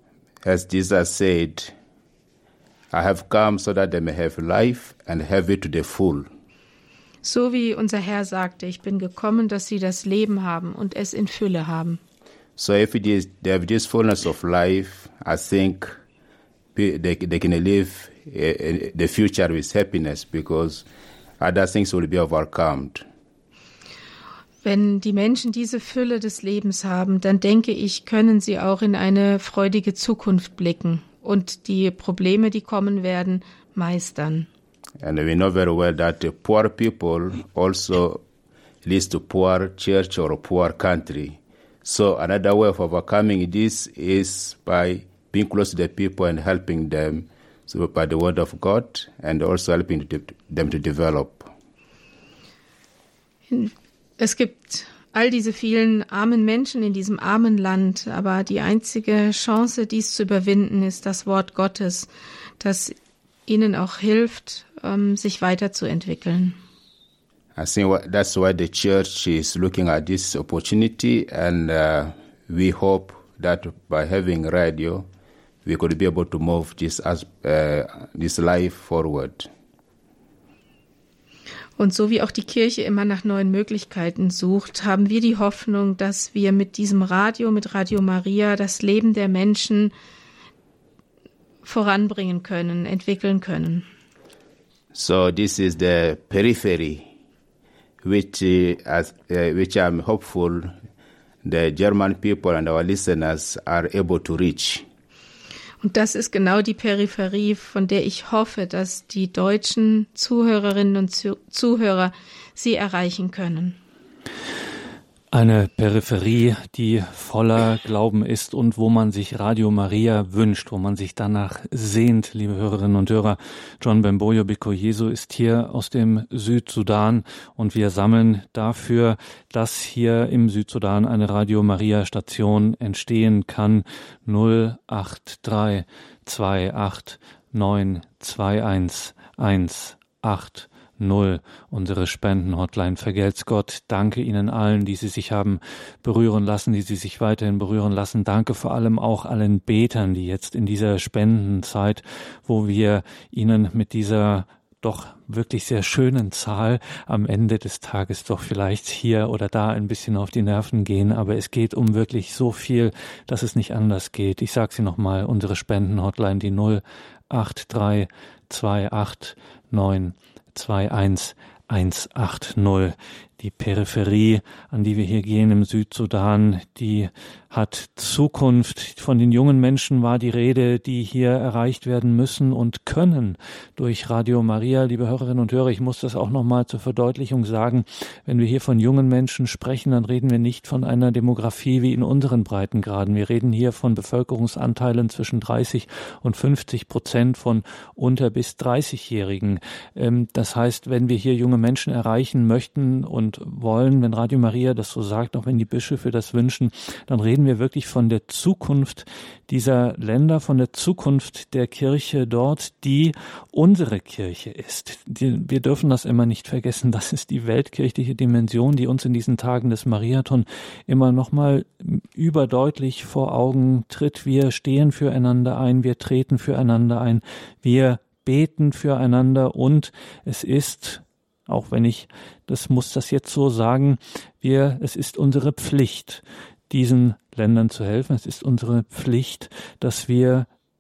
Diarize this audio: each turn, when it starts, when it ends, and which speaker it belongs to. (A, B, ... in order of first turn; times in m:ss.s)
0:00.4-0:01.7 A
0:02.9-0:06.3 A
0:07.2-0:12.0 B
0:12.6-0:15.9 A
0:16.7-0:20.8 A
0:21.4-0:23.0 A
0:24.6-0:34.5 B
0:35.0-0:38.2 A
0:38.8-0:51.5 A
0:53.5-1:02.1 B
1:02.6-1:02.9 B
1:03.5-1:06.6 B
1:07.6-1:15.1 A
1:15.6-1:19.5 A
1:21.8-1:29.9 B
1:31.6-1:33.8 B
1:34.9-1:37.1 A
1:38.0-1:40.7 A
1:41.4-1:44.8 A
1:45.8-1:53.8 B
1:55.3-4:00.5 C